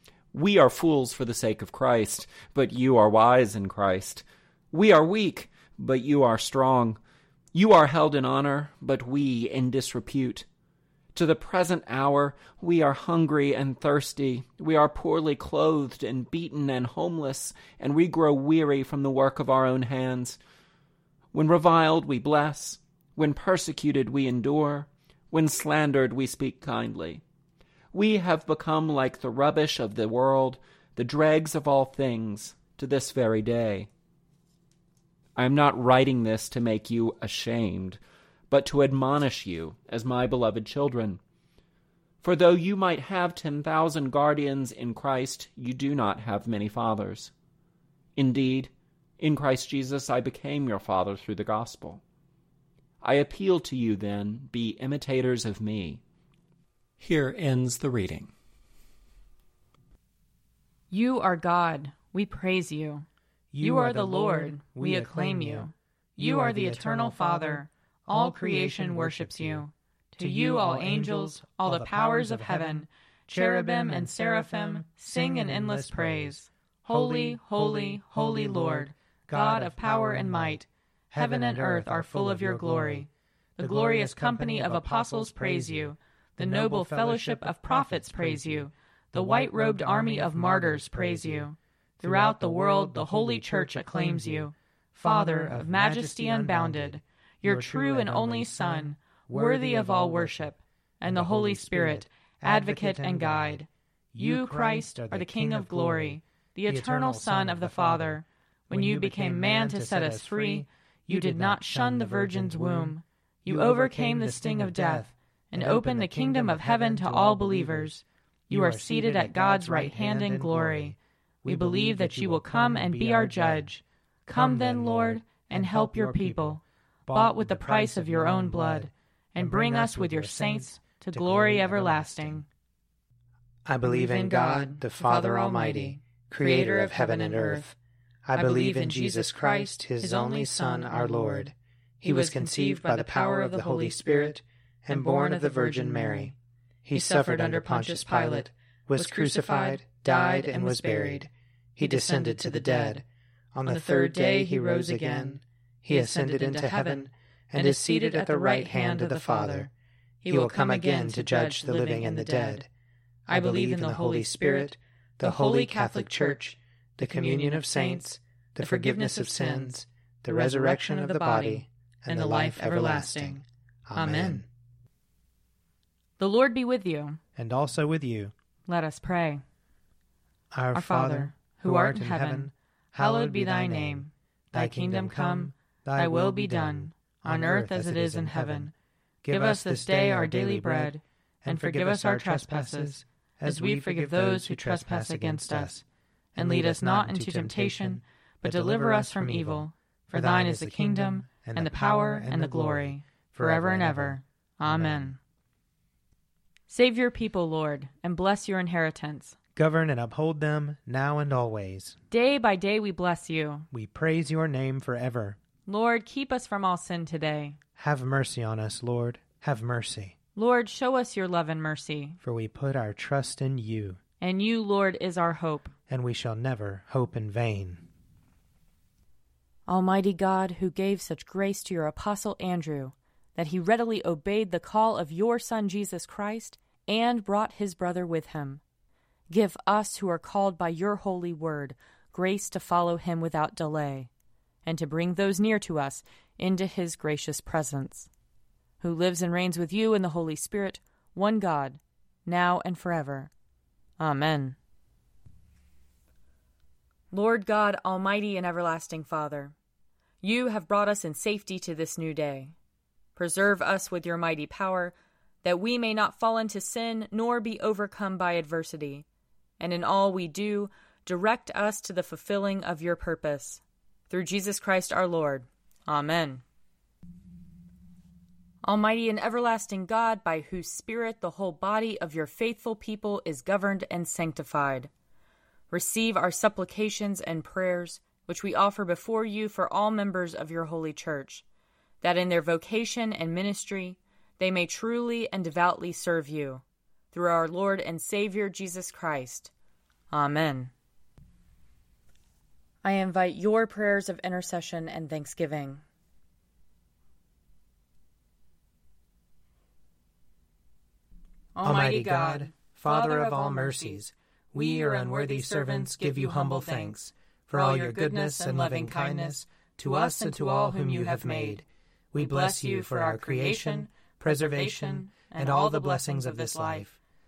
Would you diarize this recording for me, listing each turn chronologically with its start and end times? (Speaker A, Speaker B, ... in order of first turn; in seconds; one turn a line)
Speaker A: 0.3-7.0
Speaker A: 7.5-10.4
Speaker A: 11.1-20.4
Speaker A: 21.3-27.2
Speaker A: 27.9-33.9
Speaker A: 35.4-41.2
Speaker A: 42.2-47.3
Speaker A: 48.1-52.0
Speaker A: 53.0-56.0
Speaker A: 57.0-58.3
Speaker B: 60.9-63.0
Speaker C: 63.5-69.7
Speaker B: 63.6-103.7
Speaker C: 70.2-83.1
Speaker C: 83.6-91.5
Speaker C: 92.0-100.5
Speaker C: 101.0-117.9
Speaker B: 104.2-132.4
Speaker C: 118.5-123.7
Speaker C: 124.3-132.4
Speaker C: 133.6-146.3
Speaker B: 133.8-137.7
Speaker B: 138.3-141.5
Speaker B: 142.0-144.3
Speaker B: 144.9-146.3
Speaker C: 146.8-159.7
Speaker B: 146.9-151.3
Speaker B: 151.8-153.0
Speaker B: 153.7-159.7
Speaker B: 160.2-162.6
Speaker C: 160.3-162.7
Speaker B: 163.2-166.4
Speaker C: 163.3-174.4
Speaker B: 167.0-168.1
Speaker B: 168.6-173.4
Speaker B: 173.9-174.4
Speaker B: 176.2-177.2
Speaker C: 177.3-178.3
Speaker B: 178.7-179.4
Speaker C: 180.5-188.7
Speaker B: 180.7-188.7
Speaker C: 189.2-195.8
Speaker B: 189.3-195.8
Speaker C: 196.3-205.2
Speaker B: 196.3-205.2
Speaker B: 206.7-209.3
Speaker C: 209.6-212.0
Speaker B: 212.1-213.7
Speaker C: 213.7-215.4
Speaker B: 215.7-217.6
Speaker C: 217.8-220.1
Speaker B: 220.3-222.2
Speaker C: 222.2-224.0
Speaker B: 224.2-225.7
Speaker C: 225.9-227.8
Speaker B: 229.7-238.6
Speaker B: 239.3-244.1
Speaker B: 244.6-248.1
Speaker B: 248.8-253.3
Speaker B: 254.0-254.6
Speaker B: 257.1-259.5
Speaker B: 260.2-262.5
Speaker B: 263.1-269.1
Speaker B: 269.6-276.4
Speaker B: 278.6-284.9
Speaker B: 285.7-291.4
Speaker B: 292.0-299.5
Speaker B: 300.1-300.7
Speaker B: 302.8-305.8
Speaker B: 311.5-314.0
Speaker C: 311.6-326.9
Speaker B: 314.5-317.0
Speaker B: 317.5-321.6
Speaker B: 322.1-326.9